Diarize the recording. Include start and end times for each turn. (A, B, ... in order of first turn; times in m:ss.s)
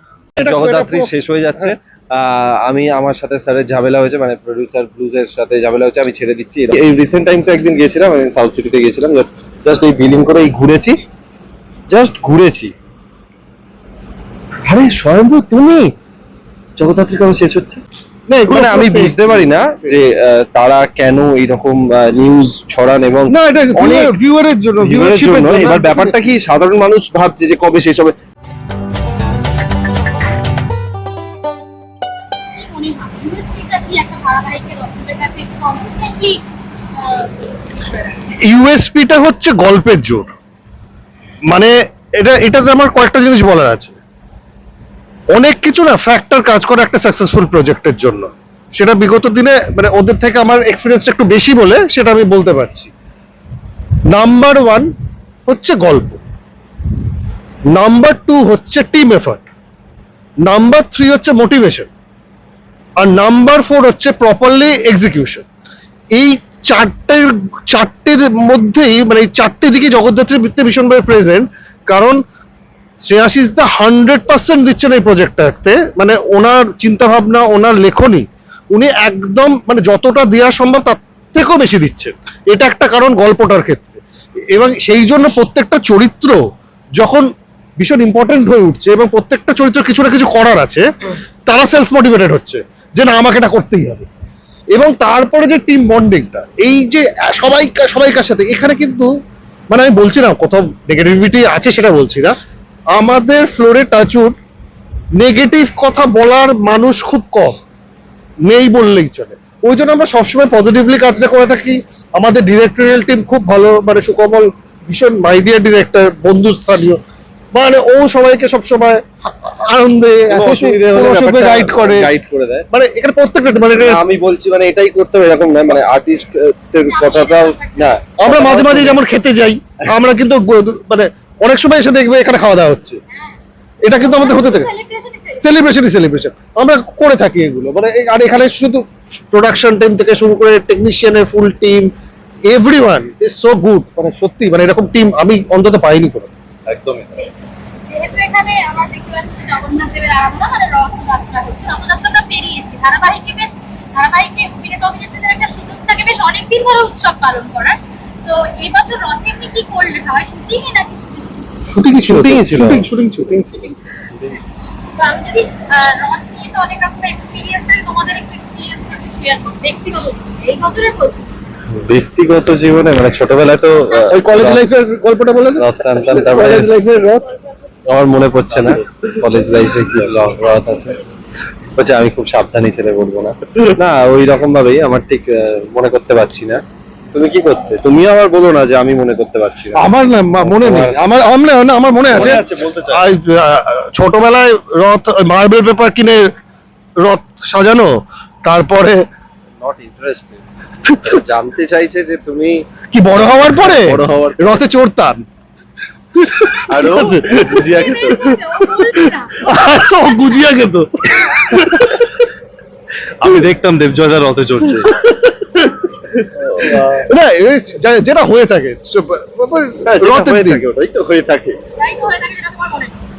0:00.4-0:01.7 A
0:00.4-0:11.0 B
0:11.9-0:12.7 B
0:14.7-0:15.9 B
0:16.8-0:17.8 B
0:18.3-0:20.0 A
0:18.5-0:24.1 B
0:23.3-0:26.2 A
0:24.8-0:28.2 B
0:32.6-0:36.4 C
0:37.0-0:38.0 C
0:38.4-0:40.3 A
0:41.5-0:44.0 A
0:45.3-0:52.9 A
0:54.1-0:54.9 A
0:55.4-0:56.2 A
0:57.7-0:59.4 A
1:00.5-1:01.9 A
1:03.0-1:05.4 A
1:06.1-1:12.2 A
1:13.0-1:24.0 A
1:24.5-1:26.4 A
1:27.0-1:27.2 A
1:27.8-1:30.8 A
1:31.4-1:34.0 A
1:34.8-1:39.1 A
1:39.7-1:42.3 A
1:42.9-1:44.3 A
1:45.2-1:47.6 A
1:48.4-1:57.0 A
1:57.5-2:02.1 A
2:00.3-2:02.7 B
2:02.7-2:04.0 A
2:03.8-2:09.0 B
2:06.8-2:07.9 C
2:08.2-2:13.0 A
2:13.1-2:13.4 C
2:13.8-2:14.7 A
2:14.0-2:15.5 C
2:15.4-2:21.9 A
2:22.5-2:26.3 A
2:26.7-2:27.1 B
2:27.9-2:41.8 C
2:41.7-2:43.8 A
2:42.0-2:42.9 B
2:45.0-2:51.4 C
2:51.7-2:54.7 B
2:53.9-2:54.2 C
2:54.1-2:57.3 A
2:55.6-2:56.8 B
2:57.9-3:01.0 B
2:59.5-3:01.1 C
3:01.8-3:06.6 B
3:07.1-3:09.9 B
3:09.8-3:16.3 A
3:10.4-3:11.0 B
3:12.1-3:13.0 B
3:17.0-3:17.9 A
3:18.4-3:19.0 A
3:19.6-3:20.4 B
3:20.9-3:21.2 A
3:21.0-3:24.6 B
3:22.9-3:25.2 A
3:26.2-3:32.1 A
3:26.7-3:28.3 B
3:27.6-3:30.6 C
3:33.2-3:35.0 B
3:34.9-3:35.7 A
3:36.3-3:37.1 B
3:36.6-3:40.6 A
3:39.9-3:41.6 B
3:41.8-3:43.0 C